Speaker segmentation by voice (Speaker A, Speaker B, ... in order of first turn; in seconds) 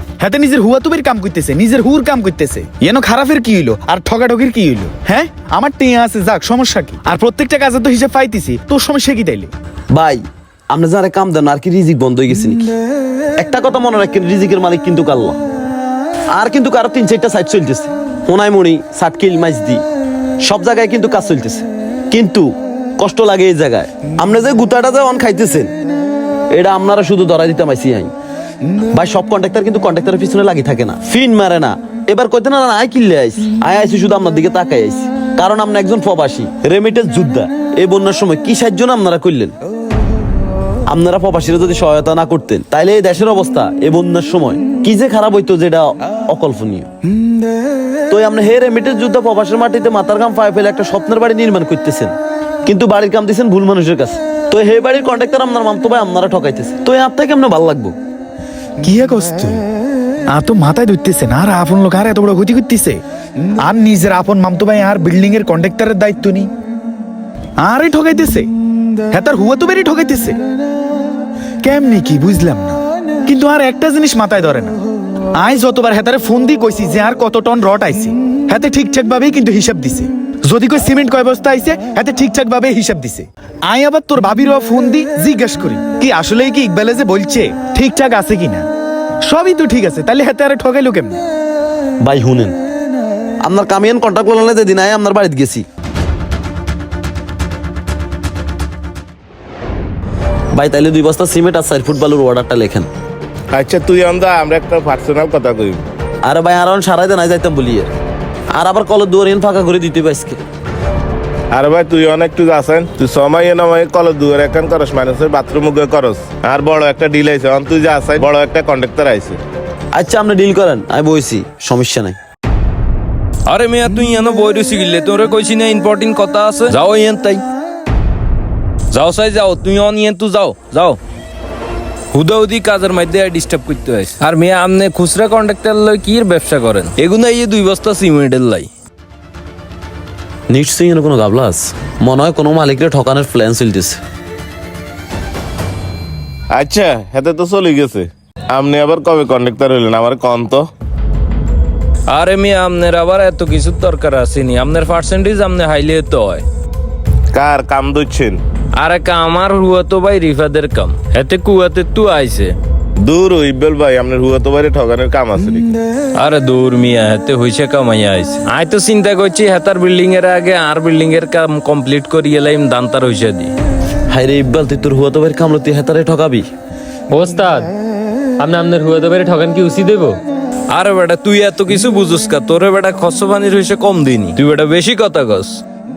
Speaker A: 0.2-9.5, 58.8-59.6, 60.3-63.0, 63.6-66.5, 67.6-68.5, 69.1-70.4, 71.6-74.8, 75.3-88.7, 89.2-91.2
Speaker B: 9.9-12.7, 13.4-15.4, 16.3-19.8, 20.4-25.7, 26.5-28.1, 28.9-39.5, 40.9-46.9, 48.1-52.1, 52.6-57.9, 92.0-92.6, 93.4-95.6, 100.5-102.9, 106.2-107.9, 108.5-110.4, 119.9-122.2, 140.5-144.0, 174.1-176.5
Speaker C: 103.5-105.8, 111.5-119.4, 146.5-150.7, 157.3-158.4, 163.0-165.8
Speaker D: 123.5-127.4, 128.9-131.0, 132.1-138.7, 152.1-156.4, 158.7-162.5, 166.2-173.5, 180.7-185.6
Speaker E: 177.1-177.7, 178.4-180.2